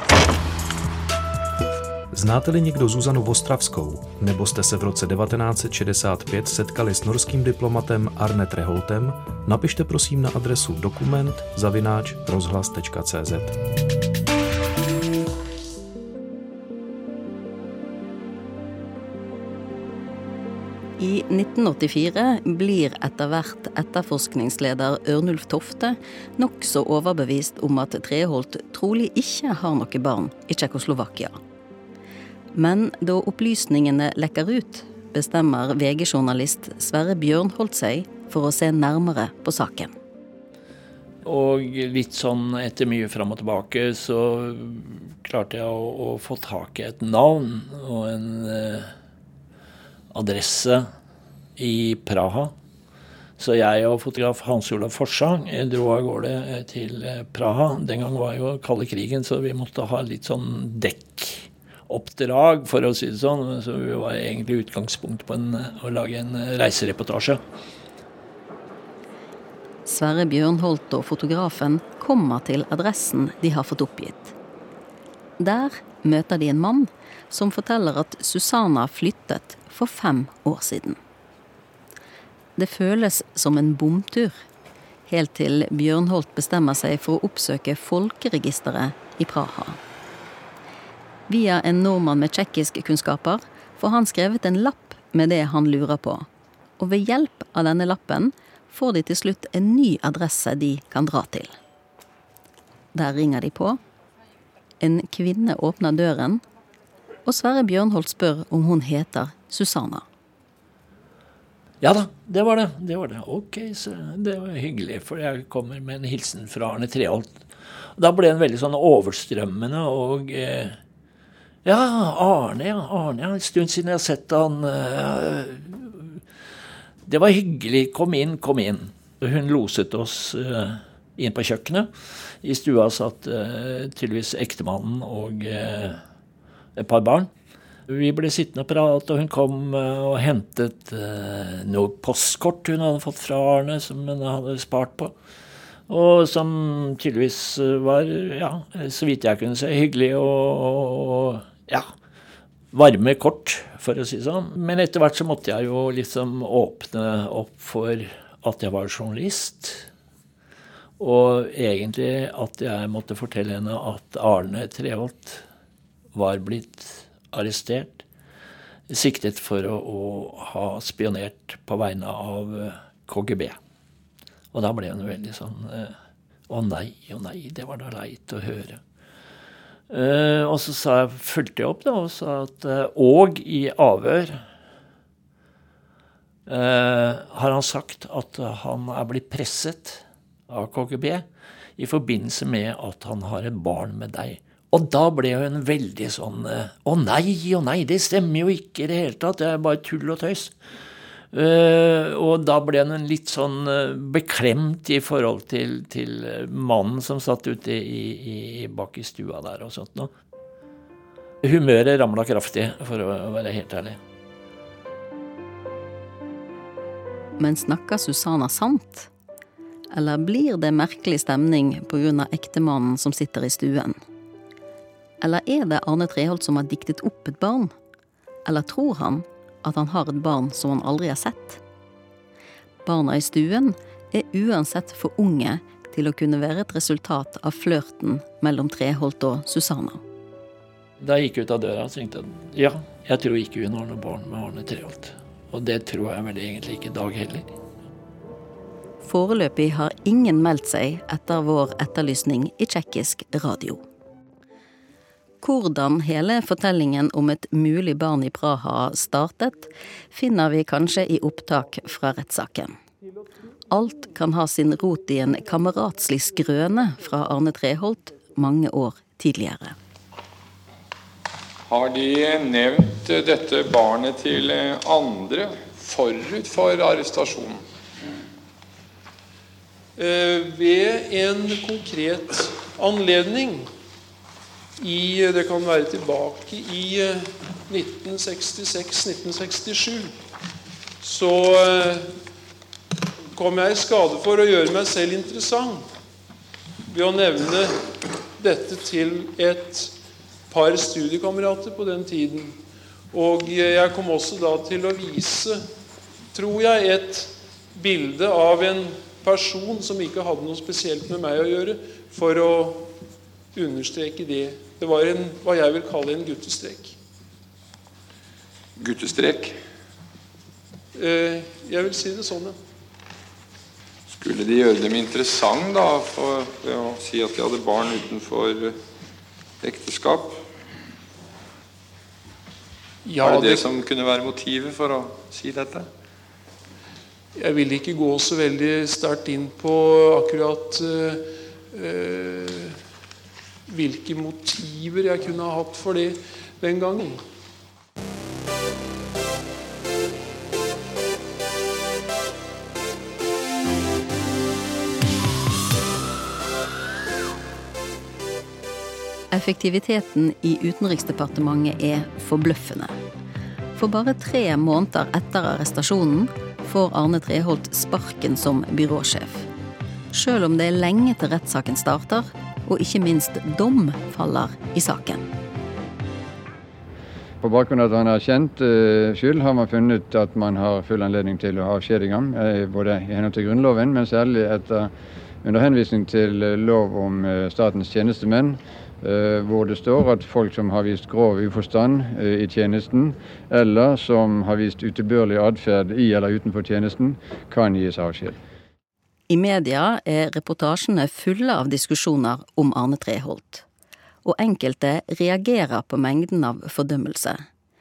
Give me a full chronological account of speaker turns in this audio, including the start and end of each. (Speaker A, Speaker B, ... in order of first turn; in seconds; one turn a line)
Speaker A: 2.1-13.6
Speaker B: 21.0-31.4
Speaker B: 32.5-39.9
Speaker C: 41.2-48.9
Speaker C: 50.1-50.9
Speaker C: 51.6-52.5
Speaker C: 53.4-67.4
Speaker B: 69.8-74.3
Speaker B: 75.4-81.0
Speaker B: 82.5-84.4
Speaker B: 85.1-89.8
Speaker B: 91.3-96.3
Speaker B: 96.8-101.5
Speaker B: 102.9-103.8
Speaker B: 104.8-106.4
Speaker B: 107.2-110.0
Speaker C: 111.8-120.8
Speaker C: 121.6-126.2
Speaker C: 127.0-136.0
Speaker C: 136.8-137.3
Speaker C: 137.9-145.2
Speaker C: 145.9-151.9
Speaker C: 152.7-159.9
Speaker C: 161.0-165.4
Speaker C: 166.1-168.0
Speaker C: 168.9-173.6
Speaker C: 174.5-175.9
Speaker C: 176.5-178.8
Speaker C: 179.9-184.4
Speaker C: 186.5-191.2
Speaker C: 191.8-200.6
Speaker C: 201.3-210.1
Speaker C: 211.4-214.0
Speaker B: 217.4-219.1
Speaker B: 219.9-224.0
Speaker B: 225.2-227.7
Speaker B: 228.4-231.6
Speaker B: 232.8-240.0
Speaker C: 241.0-247.5
Speaker B: 249.0-253.8
Speaker B: 255.4-262.8
Speaker B: 263.7-269.7
Speaker D: 271.6-277.6
Speaker E: 280.0-283.7
Speaker E: 284.8-290.1
Speaker E: 291.0-292.1
Speaker E: 293.3-295.9
Speaker E: 296.9-297.9
Speaker E: 298.4-299.9
Speaker E: 300.5-302.6
Speaker E: 303.1-305.7
Speaker E: 306.3-312.9
Speaker E: 313.5-317.0
Speaker D: 318.8-319.6
Speaker E: 320.9-322.6
Speaker D: 324.1-328.8
Speaker D: 329.6-330.4
Speaker E: 333.0-333.7
Speaker D: 333.2-335.9
Speaker E: 337.4-342.8
Speaker E: 343.7-347.2
Speaker B: 359.3-362.9
Speaker B: 363.8-369.5
Speaker B: 370.1-375.3
Speaker F: 377.4-398.4
Speaker B: 399.3-403.6
Speaker B: 404.2-407.4